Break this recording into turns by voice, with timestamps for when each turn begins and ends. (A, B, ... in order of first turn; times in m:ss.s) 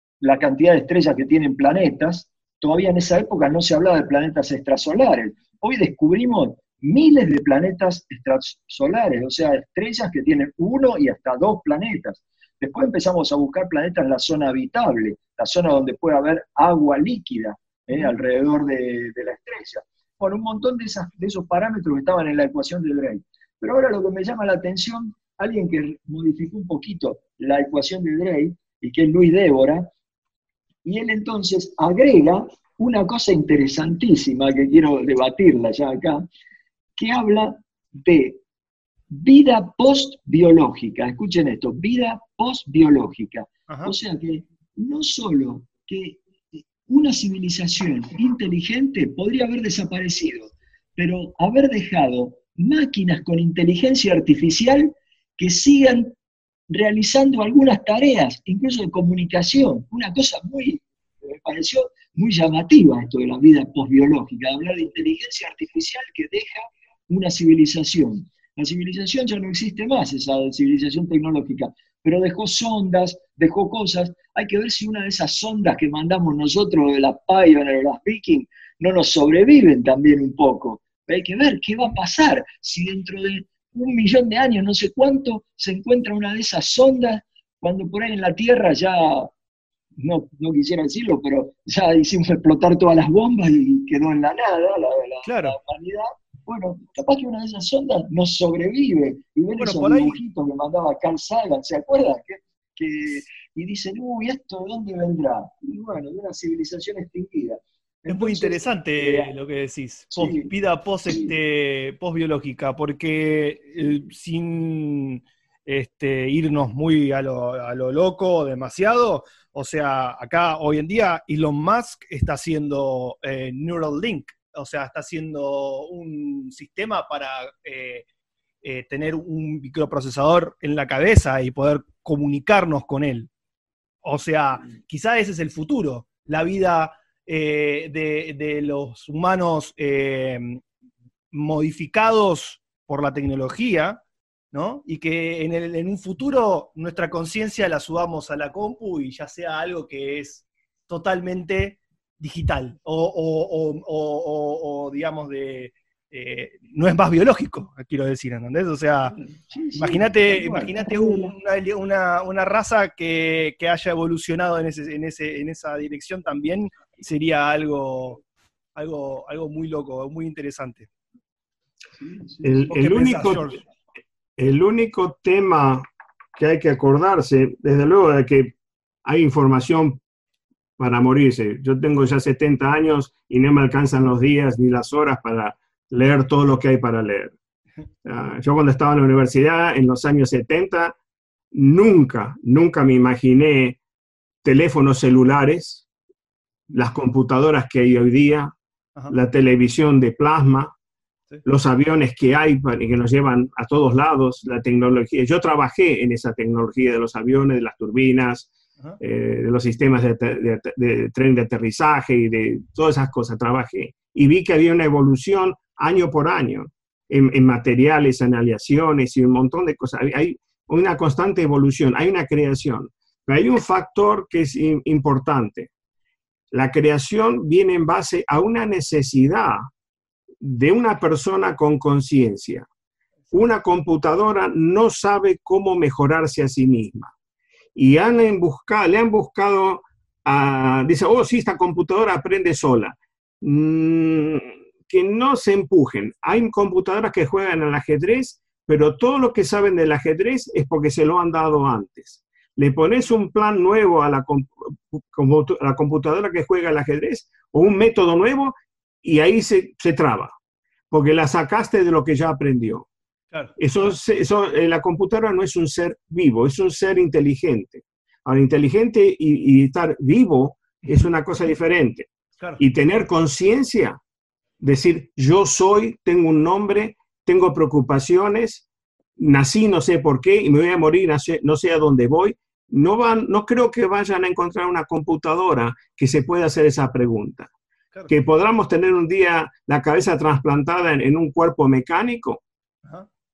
0:00.2-0:29.9 A
0:30.8-0:36.3 A
0:37.0-0:38.4 A
0:39.1-0:56.2 A
0:43.7-0:43.9 B
0:56.7-1:29.3 A
1:30.0-1:49.3 A
1:35.2-1:35.6 B
1:39.6-1:40.2 B
1:48.1-2:08.1 B
1:50.1-1:50.5 A
1:51.1-1:51.3 A
2:08.6-2:13.3 B
2:14.0-2:20.6 B
2:21.3-2:24.0 B
2:24.5-2:39.2 B
2:39.4-2:41.3 A
2:39.8-2:48.2 B
2:48.8-2:50.9 B
2:52.0-2:52.6 A
2:52.4-2:53.5 C
2:52.7-2:53.6 B
2:54.4-2:58.5 C
2:59.0-3:00.0 C
3:00.8-3:07.3 C
3:08.0-3:11.0 C
3:11.5-3:13.8 C
3:14.4-3:15.9 C
3:16.7-3:18.6 C
3:19.1-3:20.7 C
3:21.4-3:45.7 C
3:46.5-3:49.7 C
3:50.4-3:52.7 C
3:53.3-3:57.1 C
3:57.8-4:20.4 C
4:20.9-4:22.9 C
4:23.3-4:23.6 B
4:23.6-4:34.0 C
4:34.6-4:38.6 C
4:39.2-4:47.5 C
4:48.1-4:52.4 C